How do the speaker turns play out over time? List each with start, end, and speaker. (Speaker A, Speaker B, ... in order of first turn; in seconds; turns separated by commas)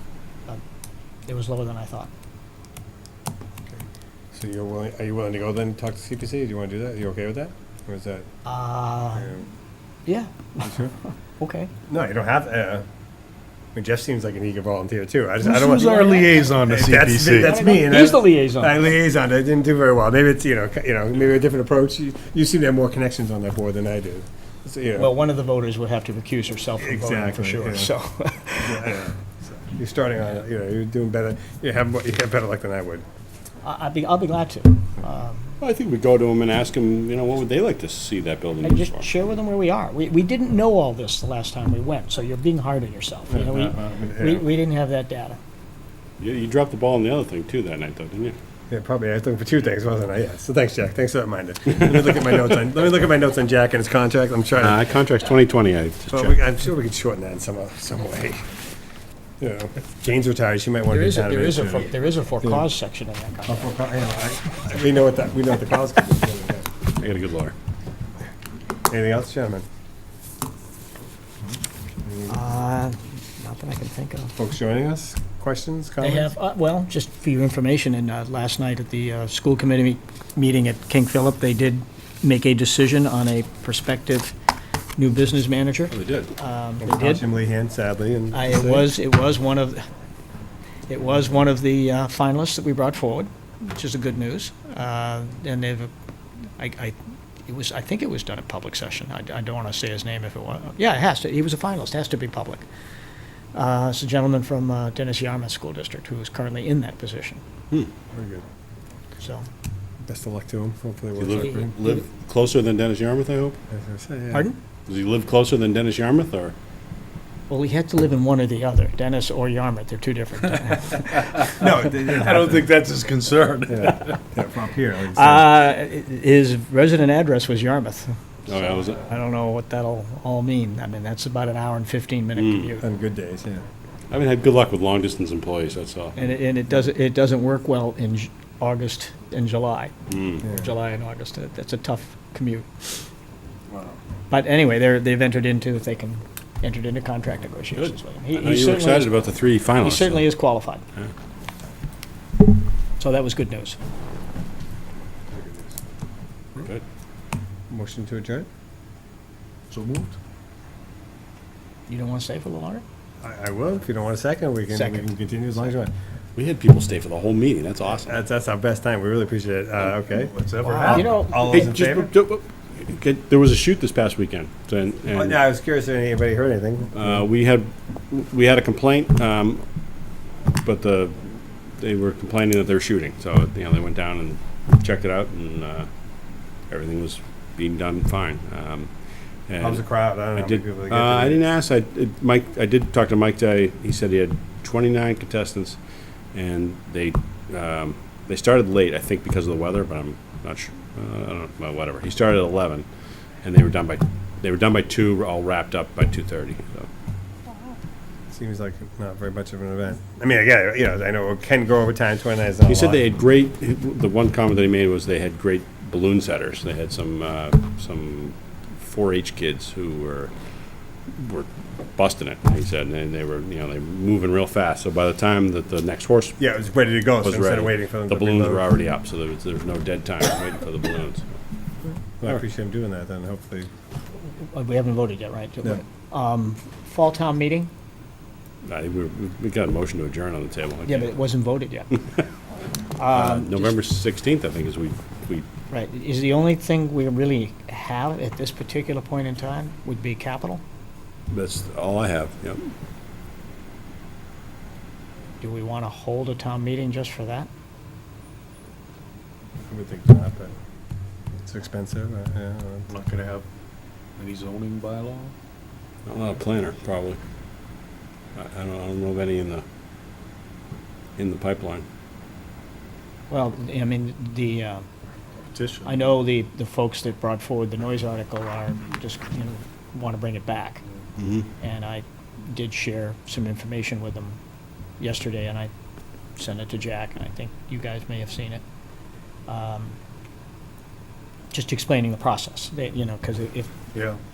Speaker A: 1.2-2.1, Speaker B: 4.3-8.3, Speaker A: 8.4-9.3, Speaker B: 9.2-9.4, Speaker A: 10.1-11.7, Speaker B: 10.6-10.9, Speaker B: 11.9-12.8, Speaker B: 13.7-25.1, Speaker C: 15.4-17.8, Speaker A: 17.4-18.9, Speaker A: 25.0-29.0, Speaker B: 26.8-27.9, Speaker B: 28.6-33.0, Speaker A: 33.6-35.5, Speaker D: 35.6-39.1, Speaker A: 38.6-45.4, Speaker B: 43.3-44.5, Speaker D: 46.2-48.4, Speaker B: 48.7-54.8, Speaker D: 54.6-56.4, Speaker B: 56.1-58.4, Speaker B: 59.4-62.6, Speaker A: 60.9-63.7, Speaker B: 63.5-66.7, Speaker D: 67.0-67.5, Speaker B: 68.8-69.6, Speaker B: 72.0-72.4, Speaker A: 72.3-74.3, Speaker B: 74.3-76.3, Speaker A: 76.0-84.3, Speaker A: 85.0-87.2, Speaker D: 85.9-86.3, Speaker B: 86.8-88.9, Speaker A: 88.3-89.8, Speaker A: 90.9-95.9, Speaker A: 96.6-102.7, Speaker A: 103.5-107.4, Speaker B: 108.1-108.4, Speaker A: 109.2-109.4, Speaker B: 110.0-111.8, Speaker D: 111.2-113.6, Speaker A: 111.6-112.0, Speaker B: 113.7-114.5, Speaker D: 114.9-116.5, Speaker A: 117.5-121.5, Speaker B: 121.6-122.6, Speaker C: 121.6-124.2, Speaker B: 123.7-125.5, Speaker A: 125.1-132.8, Speaker D: 128.5-129.0, Speaker D: 132.3-132.8, Speaker B: 132.8-133.6, Speaker D: 134.1-136.2, Speaker A: 136.2-142.9, Speaker D: 140.1-140.4, Speaker A: 144.3-149.2, Speaker D: 147.8-150.3, Speaker A: 149.8-150.8, Speaker A: 153.0-153.8, Speaker D: 156.6-156.8, Speaker B: 157.7-158.5, Speaker C: 159.7-160.1, Speaker A: 161.9-162.8, Speaker B: 163.2-165.9, Speaker A: 164.7-165.1, Speaker D: 166.3-168.2, Speaker B: 168.0-172.1, Speaker C: 170.1-171.2, Speaker A: 170.6-171.7, Speaker D: 170.9-175.4, Speaker B: 175.1-177.2, Speaker D: 176.9-179.6, Speaker D: 180.5-185.9, Speaker D: 186.7-188.9, Speaker D: 189.5-195.8, Speaker B: 189.6-191.4, Speaker D: 196.3-202.8, Speaker D: 203.4-206.9, Speaker B: 208.3-213.0, Speaker D: 212.7-220.3, Speaker D: 221.1-226.4, Speaker B: 226.4-228.7, Speaker D: 227.2-231.3, Speaker B: 232.2-233.7, Speaker A: 234.4-237.7, Speaker D: 238.6-241.1, Speaker A: 240.8-242.0, Speaker A: 242.9-243.8, Speaker D: 243.1-245.4, Speaker A: 245.7-250.6, Speaker D: 251.3-252.7, Speaker A: 255.4-257.5, Speaker B: 259.6-260.5, Speaker B: 261.3-262.9, Speaker C: 262.9-263.4, Speaker C: 264.2-265.3, Speaker D: 266.1-267.2, Speaker D: 268.3-269.6, Speaker D: 271.2-271.8, Speaker A: 273.3-274.9, Speaker C: 275.5-276.1, Speaker A: 275.8-280.8, Speaker D: 281.2-281.5, Speaker A: 281.6-284.4, Speaker A: 285.0-285.7, Speaker A: 286.4-288.6, Speaker A: 289.5-289.9, Speaker A: 291.5-293.7, Speaker C: 293.9-294.2